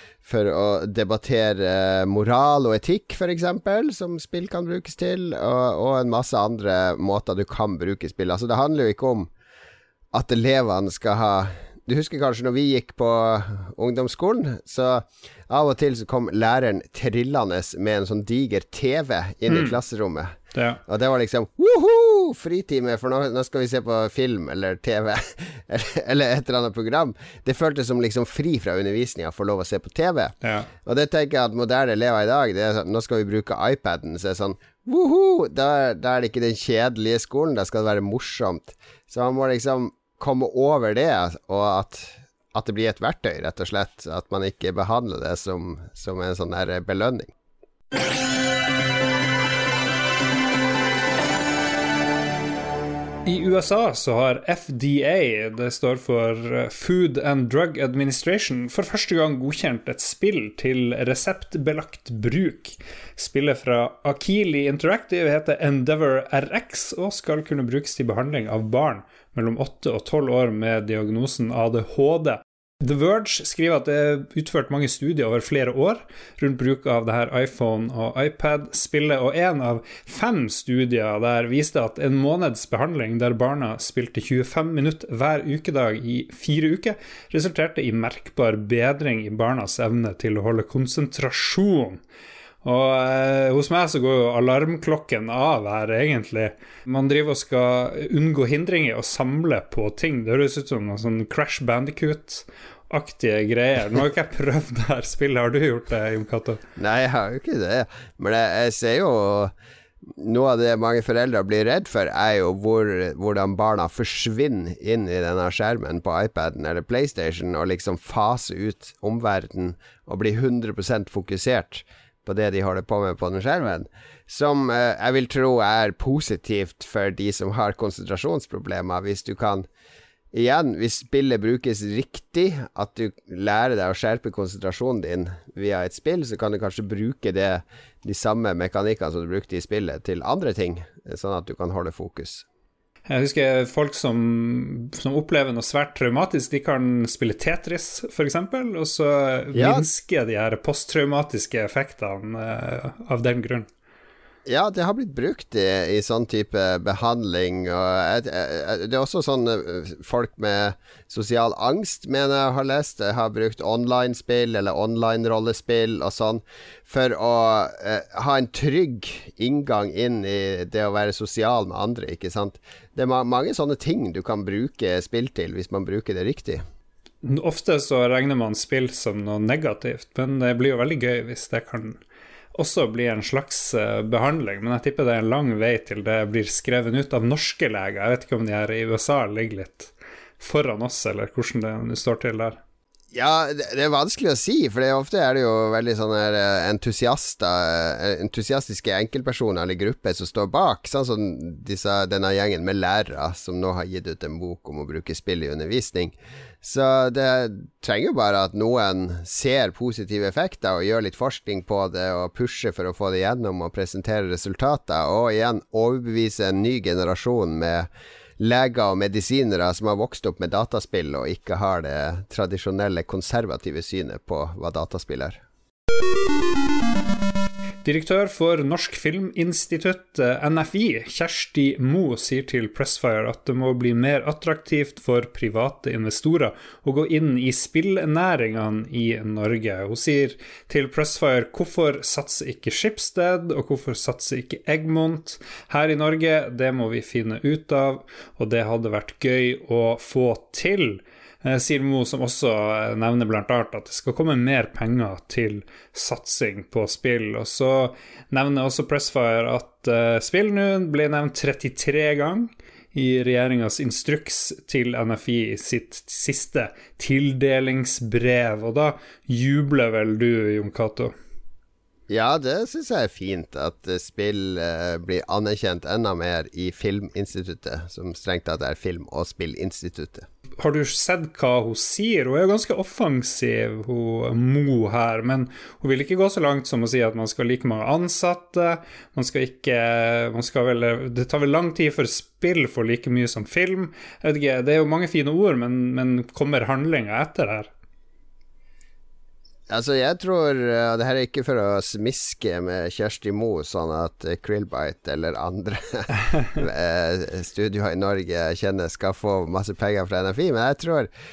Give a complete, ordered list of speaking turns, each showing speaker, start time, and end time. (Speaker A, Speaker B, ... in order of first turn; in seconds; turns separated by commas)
Speaker A: 0.2-9.3, Speaker A: 10.1-20.4, Speaker B: 19.5-19.8, Speaker B: 20.5-20.8, Speaker A: 20.9-30.3, Speaker B: 30.4-30.7, Speaker A: 30.9-47.3, Speaker B: 53.2-92.0, Speaker B: 92.6-106.6, Speaker A: 106.8-109.5, Speaker A: 110.1-129.7, Speaker A: 130.3-142.5, Speaker B: 143.1-153.7, Speaker A: 149.5-149.8, Speaker A: 154.5-176.6, Speaker B: 177.2-182.0, Speaker B: 182.6-192.6, Speaker A: 193.1-217.9, Speaker A: 218.4-225.4, Speaker B: 227.8-271.1, Speaker A: 272.1-280.3, Speaker B: 280.6-297.7, Speaker A: 299.7-311.1